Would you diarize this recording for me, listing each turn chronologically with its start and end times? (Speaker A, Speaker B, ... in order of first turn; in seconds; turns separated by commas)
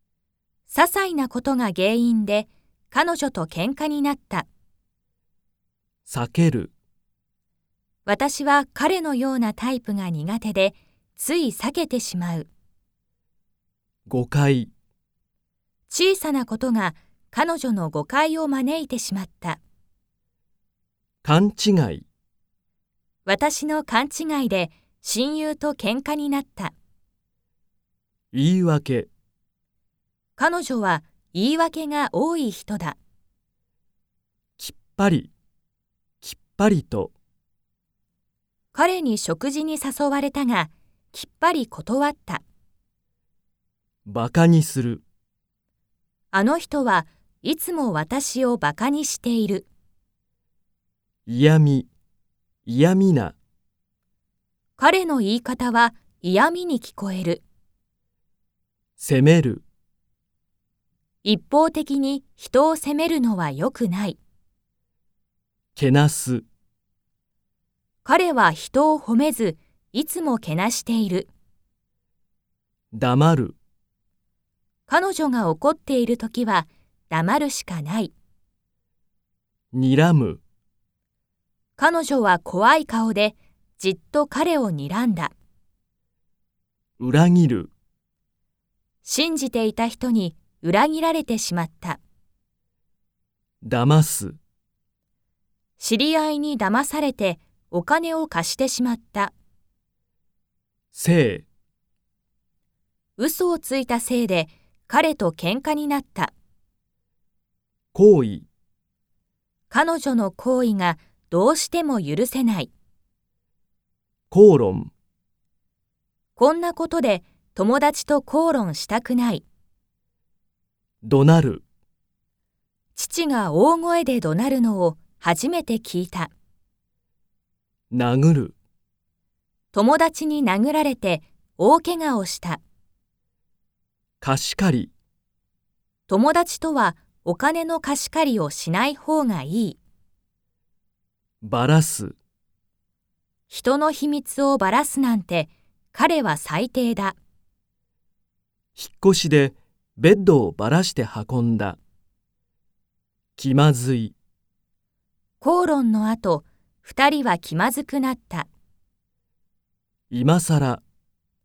Speaker A: 0.7-4.5, Speaker B: 6.0-6.7, Speaker A: 8.1-12.5, Speaker B: 14.1-14.7, Speaker A: 15.9-19.6, Speaker B: 21.2-22.1, Speaker A: 23.2-26.7, Speaker B: 28.3-29.1, Speaker A: 30.4-33.0, Speaker B: 34.6-35.3, Speaker B: 36.2-37.1, Speaker A: 38.7-42.4, Speaker B: 44.0-45.0, Speaker A: 46.3-49.7, Speaker B: 51.3-51.9, Speaker B: 52.6-53.3, Speaker A: 54.8-57.4, Speaker B: 59.0-59.6, Speaker A: 61.2-64.2, Speaker B: 65.7-66.5, Speaker A: 68.0-71.3, Speaker B: 72.9-73.5, Speaker A: 74.9-78.1, Speaker B: 79.7-80.4, Speaker A: 81.8-85.3, Speaker B: 87.0-87.7, Speaker A: 89.0-92.0, Speaker B: 93.6-94.4, Speaker A: 95.8-99.3, Speaker B: 100.9-101.5, Speaker A: 103.2-106.3, Speaker B: 107.9-108.5, Speaker A: 109.7-112.7, Speaker B: 114.3-114.9, Speaker A: 116.4-119.4, Speaker B: 121.0-121.6, Speaker A: 123.0-126.3, Speaker B: 127.9-128.5, Speaker A: 129.7-132.6, Speaker B: 134.2-134.9, Speaker A: 136.1-139.8, Speaker B: 141.4-142.2, Speaker A: 143.5-147.2, Speaker B: 148.8-151.8, Speaker B: 153.4-154.1, Speaker A: 155.4-158.5, Speaker B: 160.1-160.8